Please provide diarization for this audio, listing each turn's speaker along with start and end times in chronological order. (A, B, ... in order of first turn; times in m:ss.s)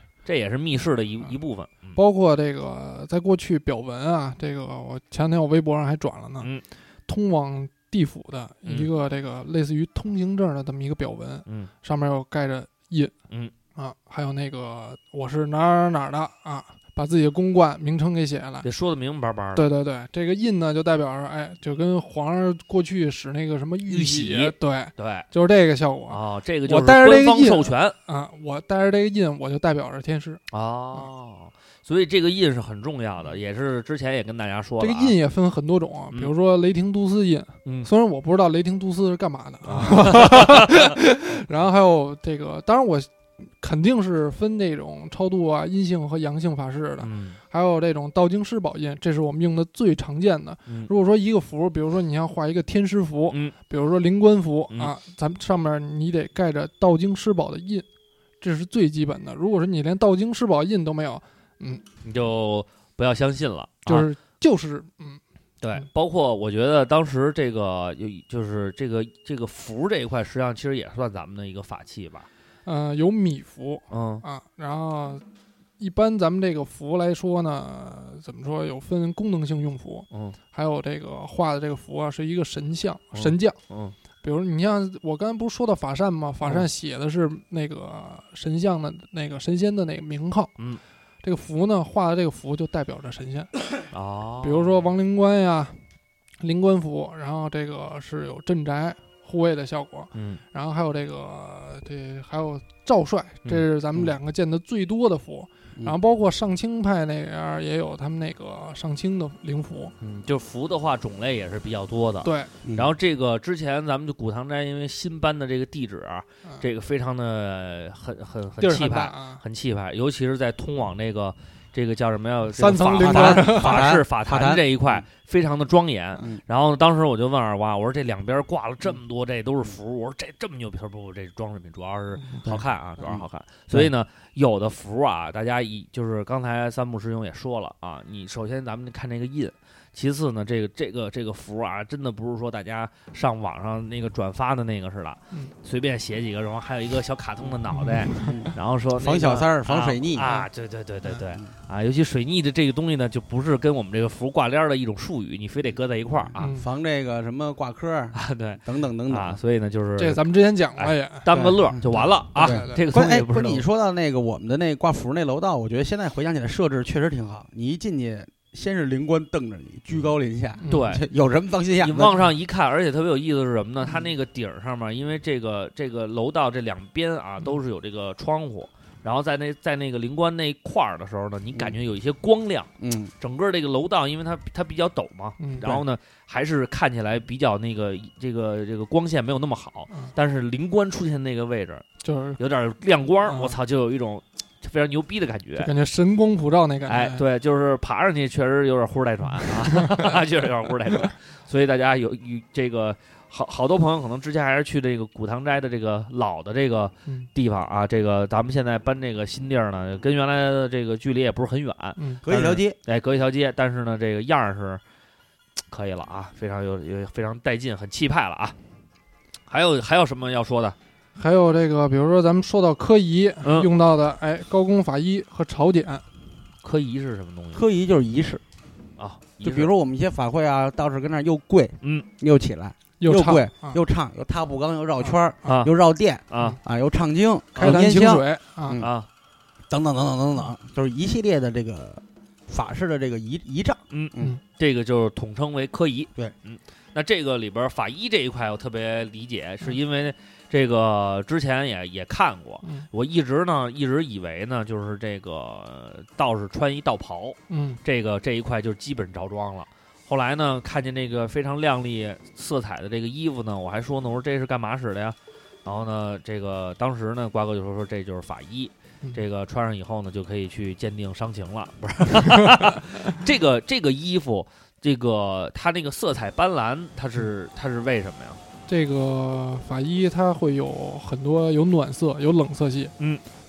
0:00.3-0:02.0 A
0:02.0-0:06.5 B
0:07.1-0:13.1 B
0:11.5-0:11.7 A
0:13.8-0:18.7 B
0:18.6-0:19.7 A
0:19.6-0:30.4 B
0:23.9-0:25.3 A
0:26.1-0:28.0 A
0:30.5-0:35.2 A
0:34.8-0:57.9 B
0:39.7-0:40.9 A
0:47.0-0:47.4 A
0:58.4-1:01.8 B
1:02.0-1:04.1 A
1:03.9-1:05.2 B
1:05.6-1:12.3 A
1:12.6-1:15.2 B
1:13.9-1:14.2 A
1:15.8-1:23.6 B
1:20.1-1:20.4 A
1:23.1-1:24.0 A
1:24.2-1:30.5 B
1:31.2-1:33.5 B
1:33.9-1:34.8 A
1:34.4-1:35.8 B
1:36.4-1:49.9 B
1:40.1-1:40.4 A
1:50.0-2:36.5 A
1:52.2-1:52.5 B
1:52.6-1:52.9 C
1:58.6-1:59.4 B
2:02.5-2:03.9 B
2:03.0-2:05.0 C
2:12.2-2:12.5 B
2:12.4-2:13.9 C
2:27.7-2:28.4 B
2:28.2-2:30.3 C
2:36.3-2:39.4 C
2:36.4-2:36.7 B
2:38.2-2:40.2 A
2:40.0-2:41.3 B
2:40.8-2:43.6 A
2:41.3-2:52.3 C
2:41.8-2:42.8 B
2:50.6-2:51.0 B
2:50.7-2:51.1 A
2:51.8-3:02.7 A
2:53.8-2:54.1 C
3:02.8-3:03.1 C
3:03.2-3:11.8 A
3:05.4-3:05.6 B
3:12.0-3:12.4 B
3:12.4-3:15.7 A
3:13.3-3:13.6 B
3:15.6-3:17.2 B
3:16.9-3:34.8 A
3:19.4-3:20.1 B
3:32.0-3:32.2 B
3:32.2-3:32.8 C
3:35.7-3:38.6 A
3:39.5-3:40.8 A
3:41.2-3:46.0 B
3:43.4-3:43.7 A
3:46.6-3:47.6 A
3:47.5-3:48.4 C
3:49.0-3:49.7 A
3:49.4-3:58.9 C
3:53.0-3:53.8 B
3:55.4-3:55.7 A
3:56.3-3:56.6 A
3:57.6-3:58.8 B
3:58.8-3:59.1 A
3:59.7-4:04.4 C
4:03.9-4:38.4 A
4:12.6-4:12.9 B
4:17.5-4:17.8 B
4:32.2-4:32.6 B
4:38.7-4:42.9 B